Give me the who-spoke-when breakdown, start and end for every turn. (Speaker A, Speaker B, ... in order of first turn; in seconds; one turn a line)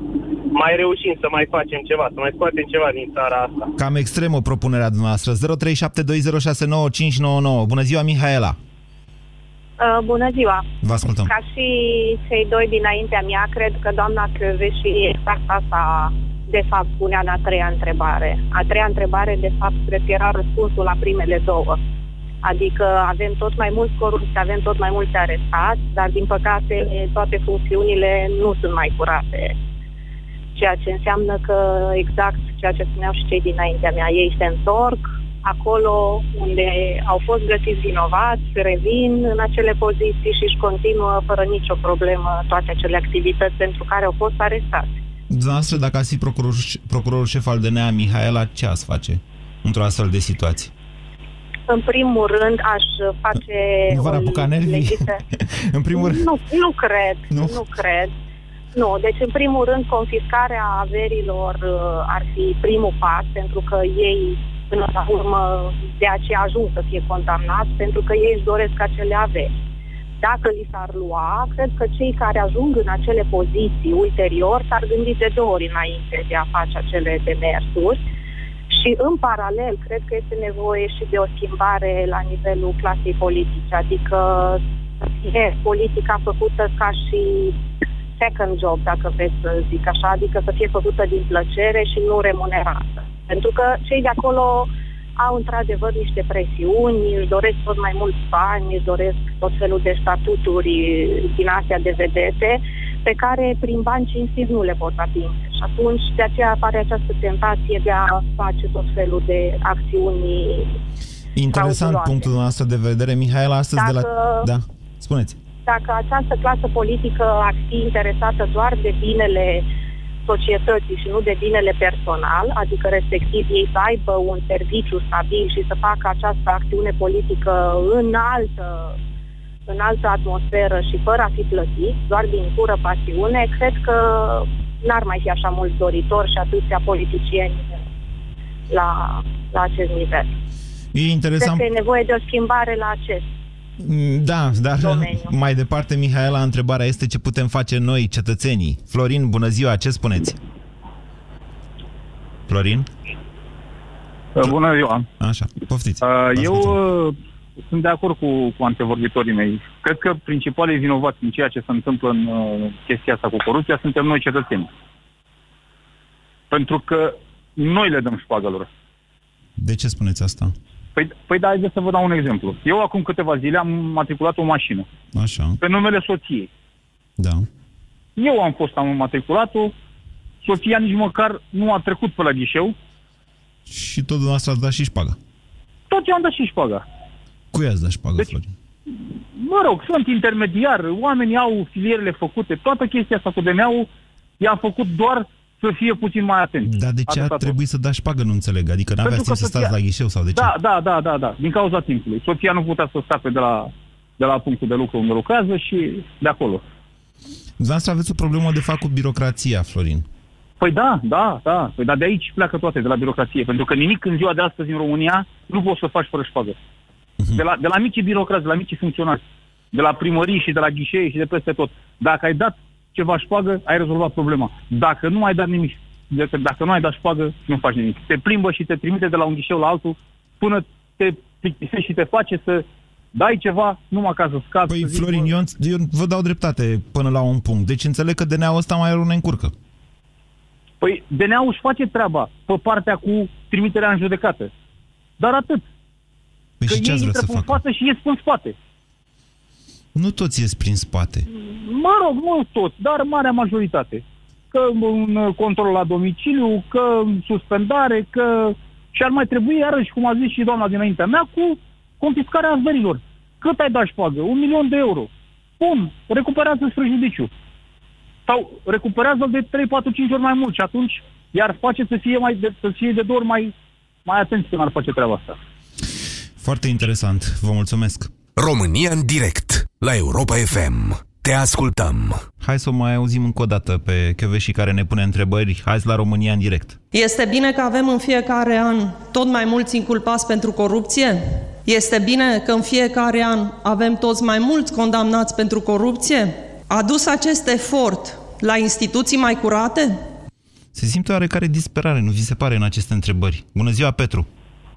Speaker A: 0.5-3.7
Speaker B: 3.8-8.6
Speaker C: 9.8-10.7
Speaker B: 10.8-11.3
Speaker C: 11.2-21.8
Speaker C: 22.4-29.6
Speaker C: 30.5-45.0
Speaker B: 45.3-50.7
Speaker C: 51.7-55.2
Speaker B: 53.9-56.3
Speaker C: 55.9-58.1
Speaker B: 57.3-57.6
Speaker C: 58.7-69.5
Speaker C: 70.2-78.0
Speaker C: 78.7-87.5
Speaker C: 88.2-110.8
Speaker B: 111.3-115.4
Speaker C: 111.5-112.3
Speaker C: 113.8-114.5
Speaker C: 115.7-119.7
Speaker C: 120.2-128.9
Speaker C: 129.7-137.8
Speaker C: 138.7-140.3
Speaker B: 140.9-141.7
Speaker C: 141.4-143.3
Speaker B: 143.8-150.4
Speaker C: 144.8-145.3
Speaker B: 152.5-152.9
Speaker D: 154.4-155.1
Speaker B: 155.2-156.8
Speaker D: 156.0-164.7
Speaker D: 166.5-168.7
Speaker B: 169.6-170.5
Speaker D: 170.9-174.9
Speaker B: 175.1-175.6
Speaker D: 175.6-176.5
Speaker B: 177.2-177.5
Speaker D: 178.2-179.7
Speaker D: 180.4-182.7
Speaker B: 183.7-185.2
Speaker D: 185.9-186.8
Speaker B: 187.5-188.5
Speaker D: 189.3-193.9
Speaker D: 194.4-197.6
Speaker B: 196.6-200.5
Speaker D: 199.0-199.7
Speaker D: 200.3-206.6
Speaker B: 207.6-210.1
Speaker D: 210.6-216.6
Speaker B: 217.2-217.4
Speaker D: 217.3-219.2
Speaker D: 219.7-235.3
Speaker B: 234.7-239.5
Speaker D: 240.8-244.5
Speaker D: 245.2-245.6
Speaker B: 246.6-247.6
Speaker D: 246.7-248.5
Speaker B: 249.9-251.3
Speaker D: 251.3-265.1
Speaker D: 265.6-267.3
Speaker D: 268.3-273.5
Speaker D: 274.1-275.4
Speaker B: 276.4-278.1
Speaker E: 278.4-282.2
Speaker B: 282.4-286.8
Speaker F: 286.9-300.0
Speaker B: 300.7-304.3